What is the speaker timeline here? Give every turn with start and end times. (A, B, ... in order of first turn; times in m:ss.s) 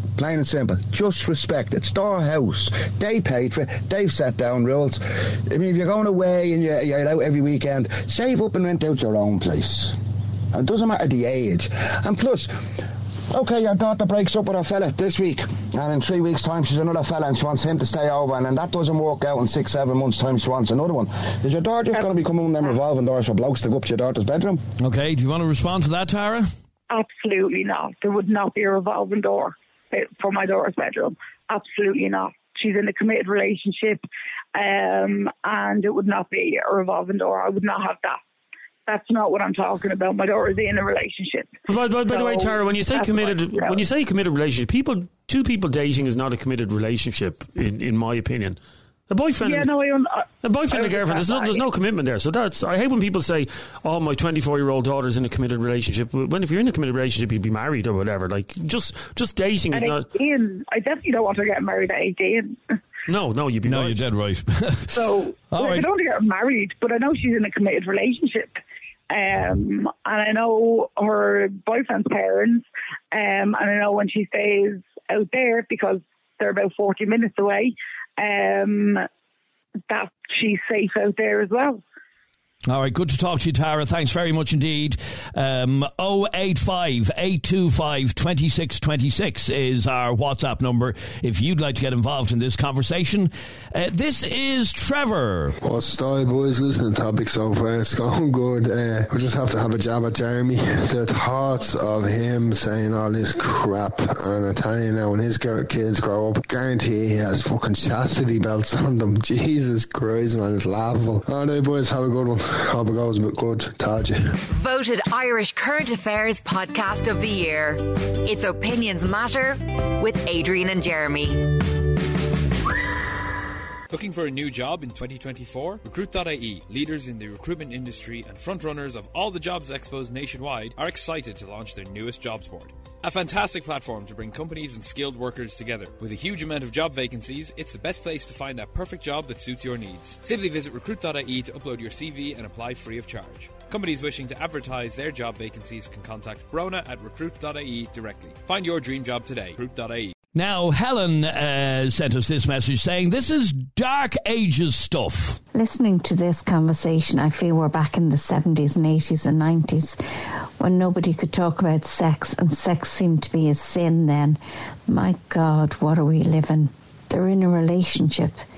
0:00.2-0:10.0 A
0:10.5-0:12.5 A
0:13.3-0:24.6 A
0:24.8-0:26.5 B
0:26.9-0:34.0 C
0:34.6-0:38.2 C
0:38.9-0:41.6 C
0:41.7-0:49.7 D
0:42.1-0:43.8 C
0:49.4-0:51.6 C
0:50.4-1:00.1 D
0:59.7-1:02.7 C
1:03.1-1:04.0 D
1:03.6-1:05.9 B
1:04.9-1:08.6 C
1:09.1-1:19.1 C
1:19.9-1:21.8 C
1:22.7-1:35.5 B
1:35.6-1:54.3 E
1:54.5-2:01.6 F
2:03.9-2:30.2 G
2:30.3-2:35.4 B
2:35.5-2:40.0 H
2:40.6-2:48.4 H